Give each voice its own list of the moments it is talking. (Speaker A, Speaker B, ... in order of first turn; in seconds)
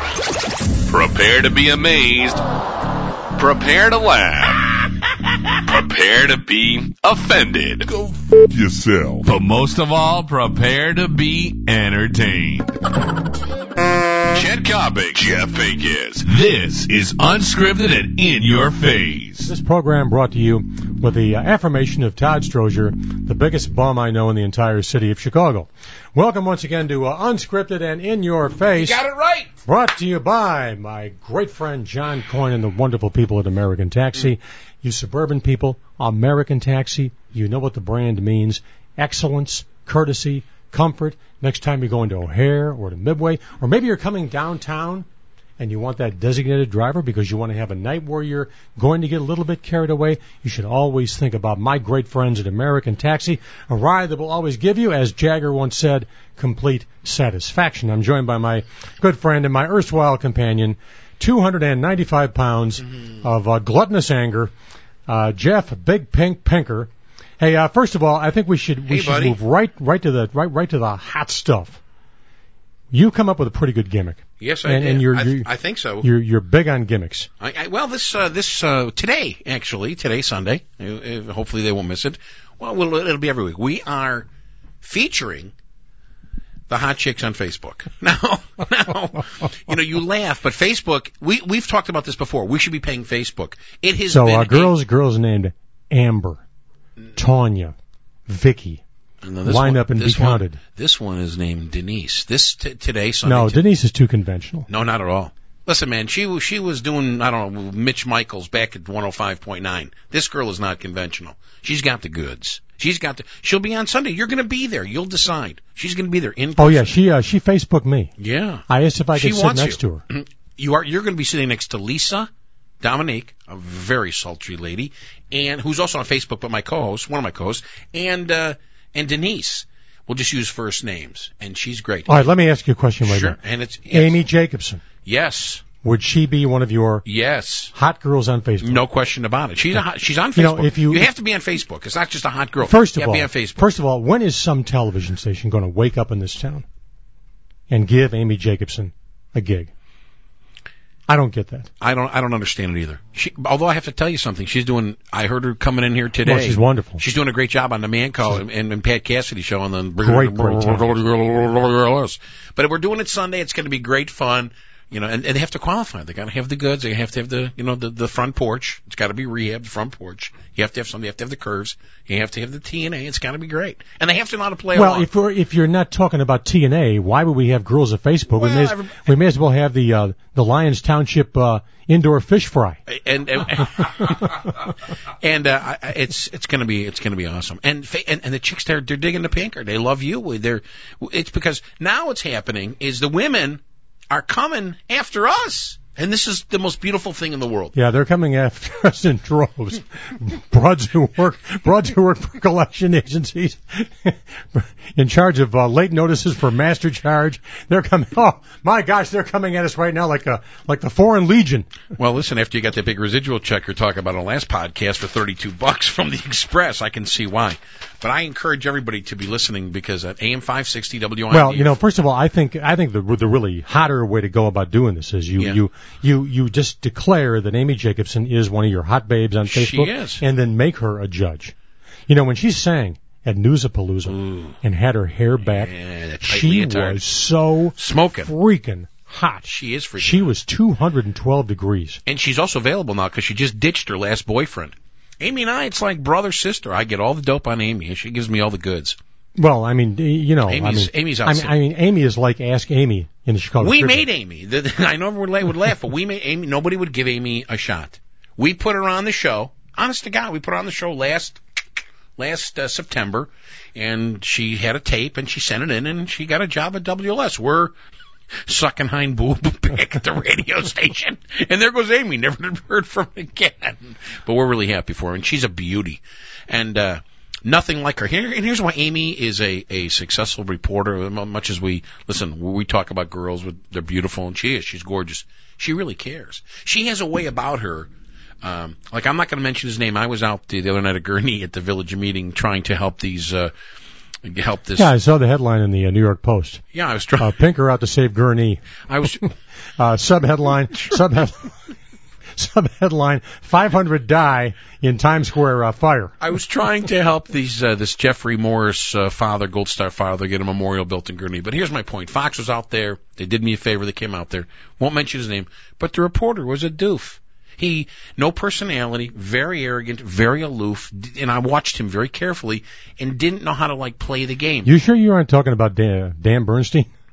Speaker A: 0.8-2.4, 3.3-12.7, 14.3-19.5
Speaker B: 19.4-29.0, 29.6-45.1, 45.6-64.5, 65.1-71.8, 72.9-75.5, 76.0-77.3, 94.1-96.4, 97.2-97.7, 98.3-98.8, 99.4-100.6, 103.2-104.7, 116.6-118.1, 118.7-120.0, 132.1-133.4, 133.9-134.8, 135.8-137.0, 137.7-138.8, 140.3-141.1, 142.6-146.6, 147.7-149.7, 151.1-151.7, 156.2-157.0, 160.0-161.0, 174.7-182.8, 197.7-211.7, 221.3-231.5, 232.1-242.0, 249.4-254.1, 294.7-296.6, 297.2-299.1, 299.8-301.5, 302.4-306.1, 324.6-326.9
Speaker C: 28.7-29.6, 68.8-69.4, 74.4-76.1, 77.4-84.3, 84.8-85.5, 86.7-94.7, 99.2-103.7, 104.7-116.9, 118.2-122.3, 122.8-132.3, 133.0-134.2, 135.0-135.6, 137.0-137.7, 138.6-143.7, 151.8-175.1, 178.3-179.1, 182.9-184.7, 185.2-197.7, 211.9-221.8, 229.5-230.2, 234.1-234.6, 235.4-237.0, 237.7-238.3, 239.4-240.3, 242.1-249.0, 250.4-251.6, 253.6-261.4, 262.2-267.7, 268.4-287.9, 288.4-293.5, 294.2-294.9, 296.7-297.4, 298.9-299.2, 306.2-324.7